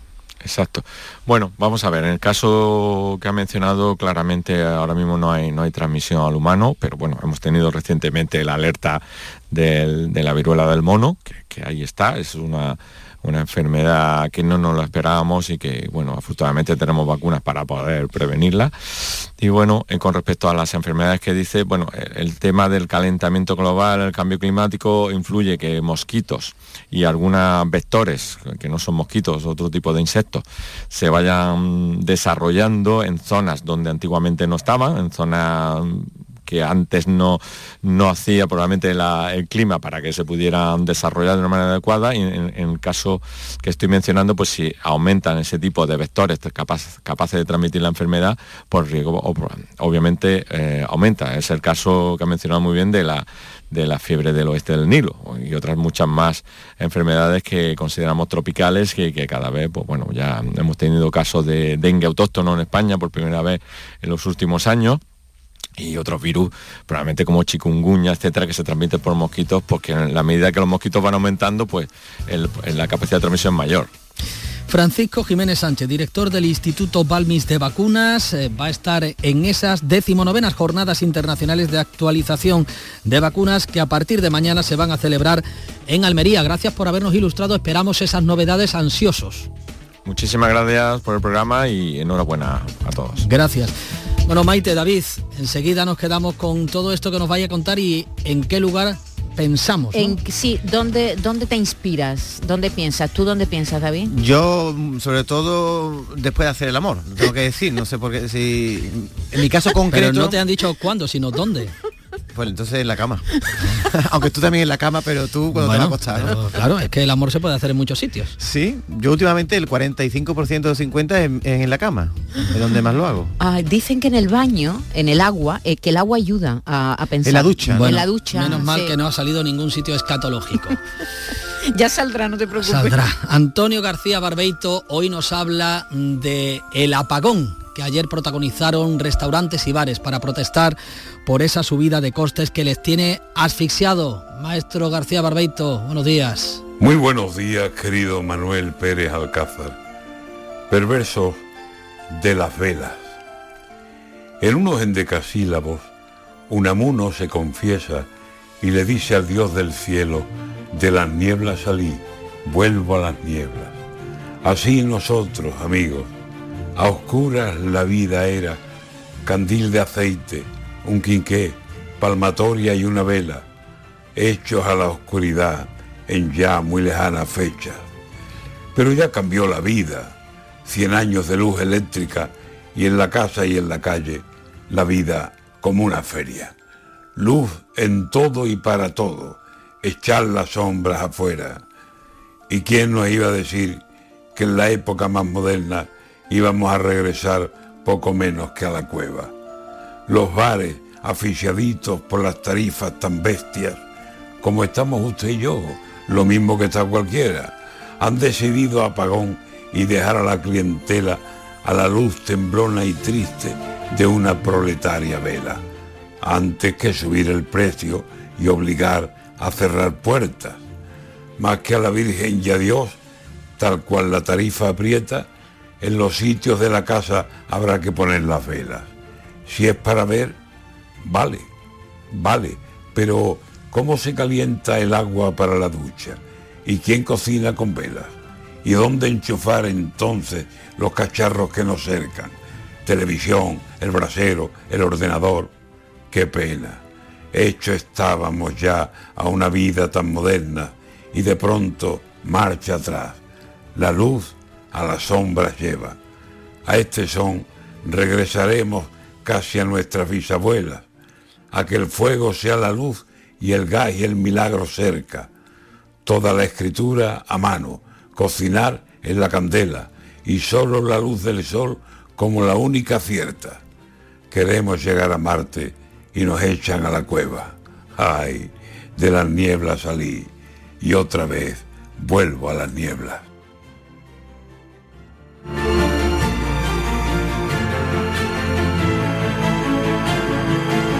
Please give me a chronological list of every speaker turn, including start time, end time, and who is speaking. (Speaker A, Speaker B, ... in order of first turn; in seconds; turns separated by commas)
Speaker A: 0.4-65.0, Speaker A: 65.8-73.9, Speaker B: 74.7-89.5, Speaker A: 90.1-93.3, Speaker B: 93.2-93.8, Speaker B: 94.3-100.2, Speaker C: 99.9-104.1, Speaker D: 104.1-110.4, Speaker B: 109.9-111.7, Speaker D: 112.3-113.2, Speaker D: 113.8-116.4, Speaker B: 115.5-118.3, Speaker D: 118.4-123.3, Speaker C: 123.4-128.9, Speaker D: 127.2-128.1, Speaker B: 127.7-130.8, Speaker C: 131.7-132.9, Speaker B: 132.6-146.6, Speaker E: 146.8-149.8, Speaker E: 150.7-151.4, Speaker E: 152.1-153.1, Speaker E: 154.4-155.9, Speaker E: 156.5-158.1, Speaker E: 158.6-163.8, Speaker E: 164.4-166.1, Speaker E: 166.8-168.6, Speaker E: 169.2-173.4, Speaker E: 174.2-177.8, Speaker E: 178.8-180.1, Speaker E: 180.6-186.5, Speaker E: 187.2-191.6, Speaker E: 192.5-193.8, Speaker E: 194.3-199.3, Speaker E: 200.1-203.8, Speaker E: 204.4-215.6, Speaker E: 216.2-220.6, Speaker E: 221.4-223.0, Speaker E: 223.6-225.3, Speaker E: 225.8-228.9, Speaker E: 229.4-230.4, Speaker E: 231.1-231.5, Speaker E: 232.1-245.5, Speaker E: 246.1-246.8, Speaker E: 247.3-253.2, Speaker E: 253.8-256.0, Speaker E: 256.7-260.9, Speaker E: 261.5-265.3, Speaker E: 266.1-273.6, Speaker E: 274.3-280.3, Speaker E: 280.8-283.2